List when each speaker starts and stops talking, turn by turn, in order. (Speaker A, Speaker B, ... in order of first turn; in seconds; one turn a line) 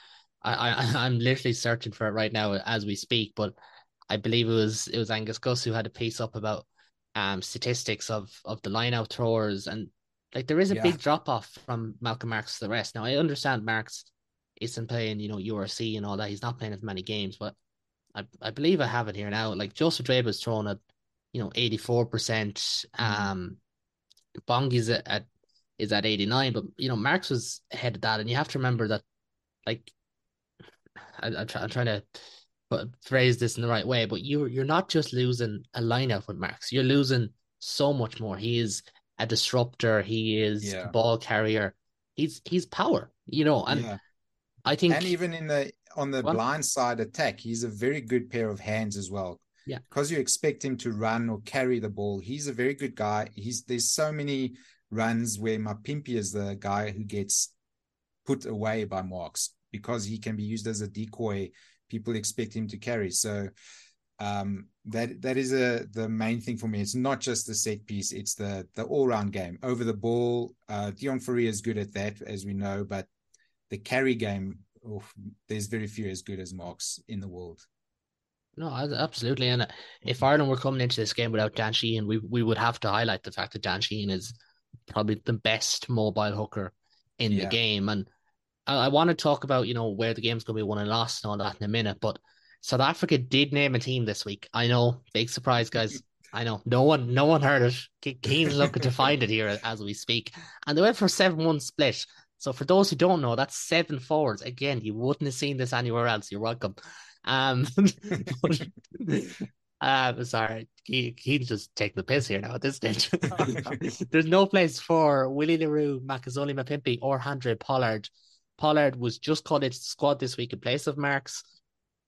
Speaker A: 0.4-3.5
Speaker A: 4.1-17.6
Speaker B: 10.7-11.0
Speaker A: 18.1-20.8
Speaker A: 21.3-23.6
Speaker B: 23.0-23.3
Speaker A: 24.5-25.2
Speaker A: 25.8-29.0
Speaker A: 29.6-29.9
Speaker A: 31.2-43.9
Speaker B: 40.6-40.9
Speaker B: 43.7-44.0
Speaker A: 44.6-45.1
Speaker B: 44.9-57.5
Speaker B: 58.2-63.5
Speaker B: 64.2-73.1
Speaker B: 73.7-77.6
Speaker A: 78.6-84.3
Speaker A: 84.9-88.1
Speaker B: 87.3-87.6
Speaker A: 88.7-121.4
Speaker B: 113.4-113.8